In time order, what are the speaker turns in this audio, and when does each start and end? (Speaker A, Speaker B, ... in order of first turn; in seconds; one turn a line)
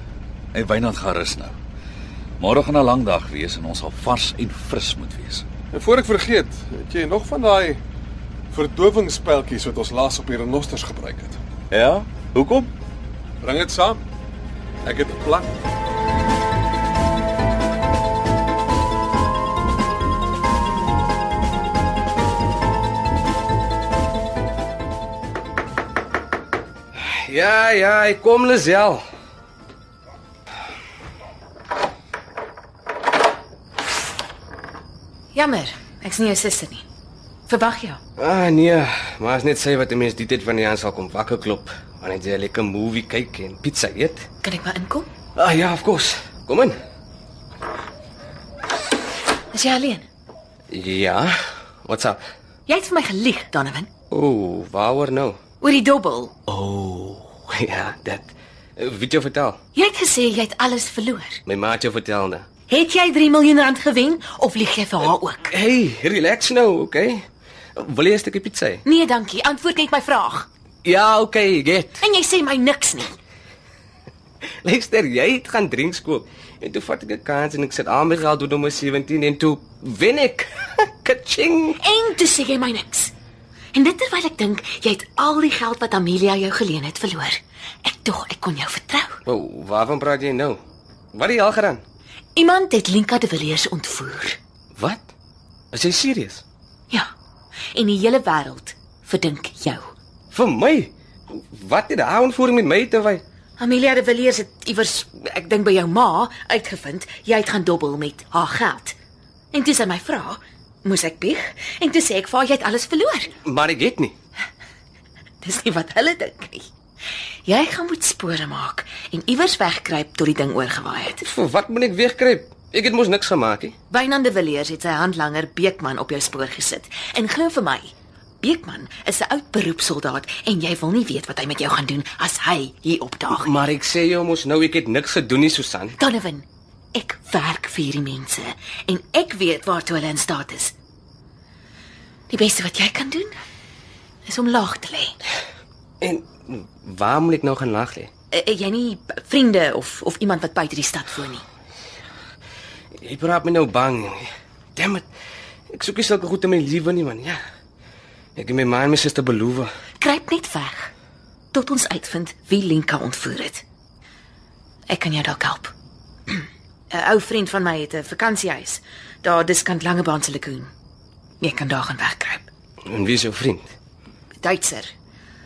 Speaker A: 0.5-1.6
Speaker A: 2.4-5.5
Speaker B: 5.7-7.8
Speaker B: 8.5-11.4
Speaker A: 11.7-12.7
Speaker B: 13.4-14.0
Speaker B: 14.8-15.5
Speaker C: 27.1-29.0
Speaker D: 35.3-36.8
Speaker D: 37.5-38.0
Speaker C: 38.2-44.3
Speaker D: 44.4-45.1
Speaker C: 45.4-46.8
Speaker D: 49.5-50.0
Speaker C: 50.7-51.3
Speaker C: 51.8-52.2
Speaker D: 52.7-53.9
Speaker C: 54.1-55.4
Speaker D: 55.6-56.3
Speaker C: 56.5-59.6
Speaker D: 59.8-61.4
Speaker C: 61.5-62.5
Speaker D: 62.7-65.5
Speaker C: 65.5-67.2
Speaker C: 67.8-68.8
Speaker D: 68.8-70.5
Speaker C: 70.9-72.0
Speaker D: 72.0-73.2
Speaker C: 74.6-81.8
Speaker D: 81.8-83.1
Speaker D: 83.7-89.2
Speaker C: 89.2-90.6
Speaker C: 91.1-91.8
Speaker D: 92.4-94.4
Speaker C: 94.8-95.1
Speaker C: 95.7-96.4
Speaker D: 97.7-99.9
Speaker C: 100.3-103.2
Speaker D: 103.6-108.9
Speaker D: 109.5-113.3
Speaker C: 113.5-114.1
Speaker D: 115.4-116.6
Speaker D: 117.5-121.2
Speaker C: 121.2-123.8
Speaker D: 123.9-127.9
Speaker D: 128.4-133.6
Speaker C: 133.4-136.0
Speaker D: 136.0-140.7
Speaker D: 142.3-143.3
Speaker D: 144.2-145.1
Speaker C: 146.0-148.1
Speaker D: 148.3-151.4
Speaker C: 153.0-155.1
Speaker C: 155.7-157.4
Speaker C: 158.4-159.7
Speaker D: 160.0-160.9
Speaker D: 161.5-163.6
Speaker D: 164.9-165.7
Speaker D: 166.3-170.7
Speaker D: 171.4-172.5
Speaker C: 172.9-173.7
Speaker D: 174.4-174.9